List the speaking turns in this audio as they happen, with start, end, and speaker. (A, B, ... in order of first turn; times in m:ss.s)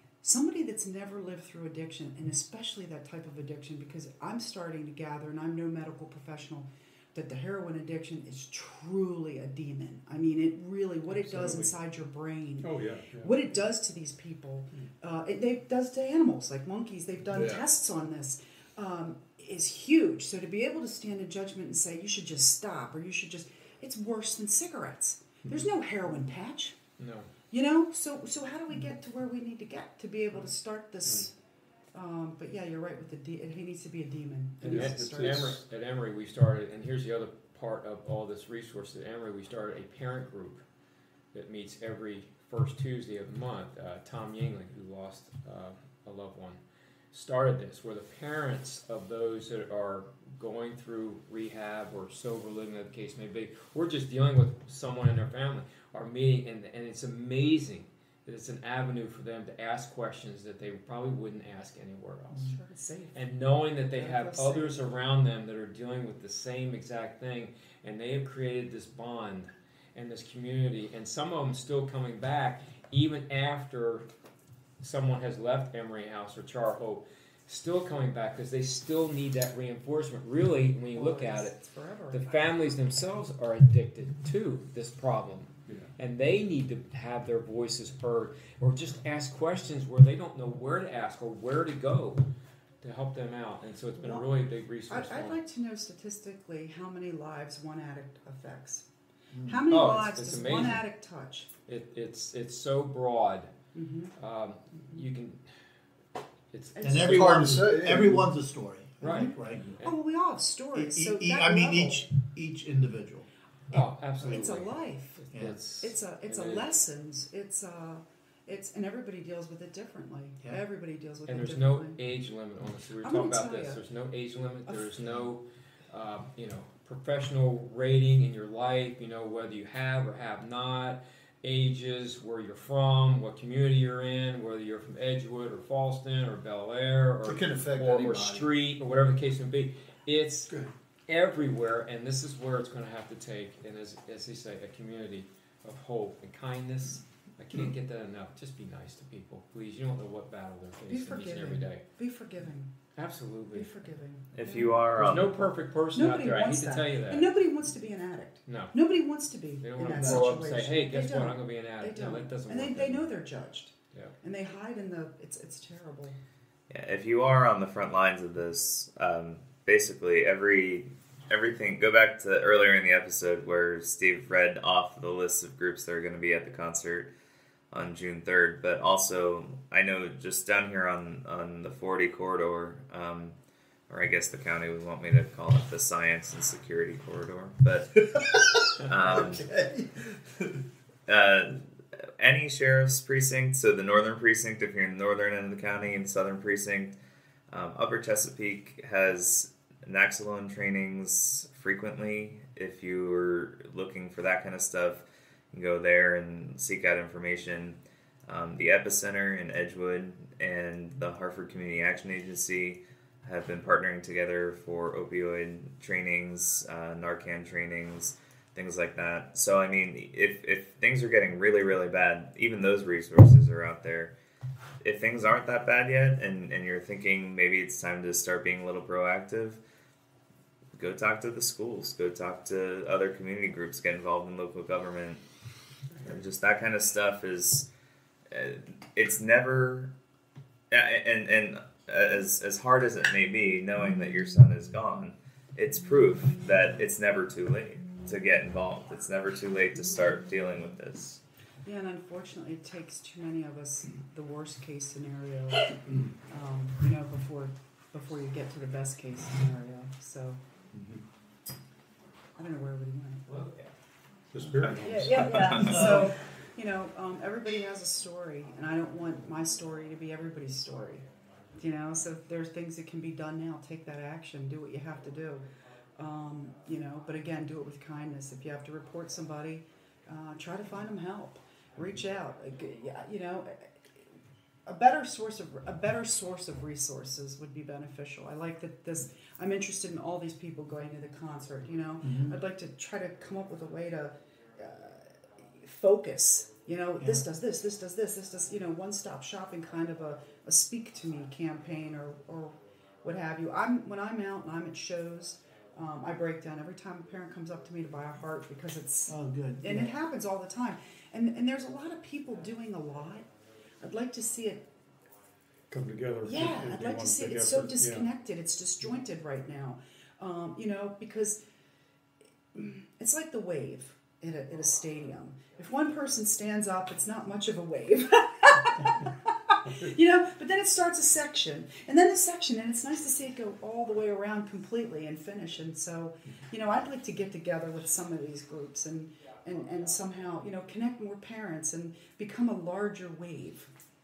0:00.2-0:26.8 A
0:11.1-0:11.7 B
0:12.6-0:13.4 B
0:17.3-0:17.6 C
0:27.0-0:27.3 D
0:27.5-0:31.3 A
0:31.9-0:35.6 A
0:34.6-0:40.6 D
0:34.7-0:35.6 B
0:41.3-0:46.6 D
0:47.1-1:02.5 D
1:02.4-1:03.2 A
1:03.1-1:14.1 D
1:03.9-1:04.8 A
1:14.8-1:21.6 D
1:20.9-1:22.8 A
1:22.1-1:32.3 D
1:25.7-1:25.9 B
1:32.8-1:35.4 D
1:34.9-1:38.8 A
1:39.5-1:41.5 A
1:39.7-1:40.9 D
1:41.7-1:43.5 D
1:43.7-1:44.1 A
1:44.2-1:45.4 D
1:44.7-1:45.0 A
1:46.5-1:47.6 D
1:46.8-1:47.3 A
1:46.8-1:49.6 E
1:47.0-1:48.3 C
1:49.0-1:50.0 D
1:49.1-1:52.1 A
1:50.8-1:53.3 E
1:53.7-1:56.7 D
1:54.2-1:55.2 A
1:55.3-1:55.6 E
1:55.8-2:02.0 A
2:01.3-2:20.5 D
2:03.0-2:03.8 A
2:04.7-2:05.0 A
2:17.2-2:18.5 C
2:21.1-2:31.8 D
2:30.9-2:32.7 A
2:32.9-2:33.8 D
2:33.5-2:34.8 A
2:34.3-2:35.5 F
2:35.0-2:37.3 D
2:35.9-2:46.2 A
2:38.5-2:38.8 D
2:39.6-2:43.1 D
2:39.8-2:40.7 C
2:46.7-2:57.1 F
2:57.7-3:03.4 F
3:03.9-3:08.0 F
3:08.0-3:10.6 C
3:08.8-3:09.1 D
3:08.8-3:09.4 F
3:11.1-3:11.6 F
3:12.2-3:17.0 F
3:17.5-3:44.1 F
3:44.8-3:49.6 F
3:50.8-3:55.2 F
3:56.0-3:57.7 F
3:58.3-3:59.9 F
4:00.7-4:11.2 F
4:11.6-4:20.4 A
4:20.7-4:21.0 B
4:22.4-4:23.4 A
4:23.3-4:23.6 D
4:24.3-4:26.0 B
4:24.8-4:31.0 A
4:25.4-4:25.8 F
4:25.6-4:26.1 E
4:31.6-4:35.4 A
4:36.0-4:43.7 A
4:44.7-5:13.3 A
4:52.0-4:52.4 E
4:57.0-4:57.3 E
5:09.1-5:10.0 E
5:13.8-5:14.6 A
5:15.7-5:18.1 B
5:16.2-5:21.4 A
5:22.5-5:43.7 A